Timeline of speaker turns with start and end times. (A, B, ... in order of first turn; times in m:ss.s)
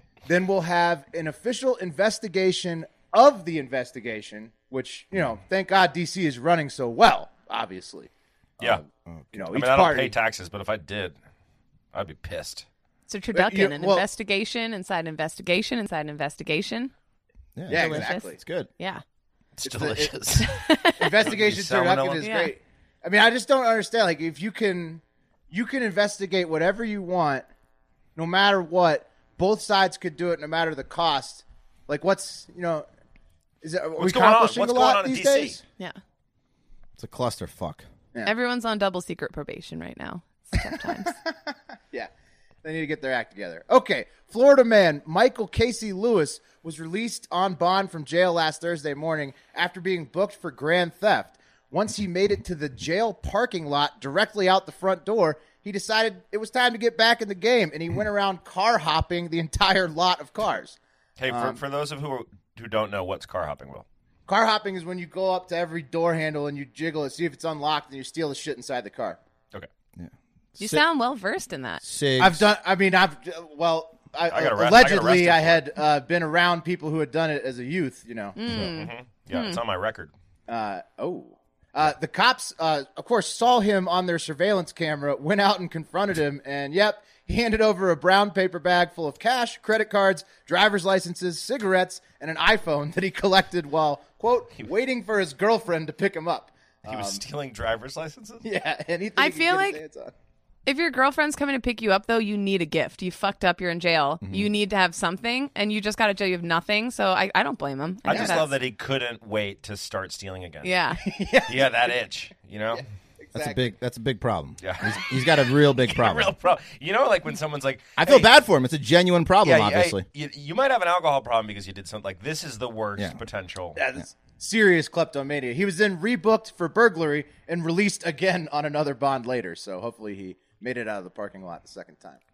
0:00.3-0:10.2 A
0:09.1-0:09.4 B
0:09.5-0:11.2 C
0:11.9-0:12.7 C
0:13.1-0:16.9 D
0:13.3-0:14.1 A
0:17.6-0:18.7 B
0:17.7-0:18.4 A
0:17.7-0:19.0 D
0:19.6-0:20.5 C
0:19.6-0:20.2 A
0:20.4-0:21.2 D
0:21.0-0:27.5 A
0:21.2-0:22.3 C
0:22.2-0:22.5 D
0:28.2-0:32.9 A
0:33.6-0:35.6 A
0:34.0-0:35.6 C
0:37.0-0:37.8 B
0:38.2-0:41.1 D
0:41.1-0:42.1 A
0:42.6-1:00.8 A
1:01.2-1:03.9 C
1:01.3-1:01.6 A
1:04.3-1:09.2 A
1:10.0-1:10.8 B
1:10.6-1:11.8 D
1:11.8-1:12.5 B
1:12.2-1:18.4 A
1:14.3-1:15.6 C
1:18.4-1:19.6 D
1:18.5-1:20.1 C
1:20.5-1:37.2 A
1:36.9-1:38.5 C
1:38.4-1:40.1 A
1:39.2-1:39.8 D
1:40.7-1:48.6 D
1:44.2-1:44.5 B
1:48.1-1:50.7 C
1:48.1-1:48.4 A
1:50.6-1:51.0 D
1:51.0-1:52.0 A
1:51.5-1:52.8 C
1:52.7-1:53.7 A
1:53.4-1:56.4 B
1:54.6-1:58.3 C
1:58.0-2:00.0 B
1:59.4-2:03.8 C
2:03.8-2:12.2 A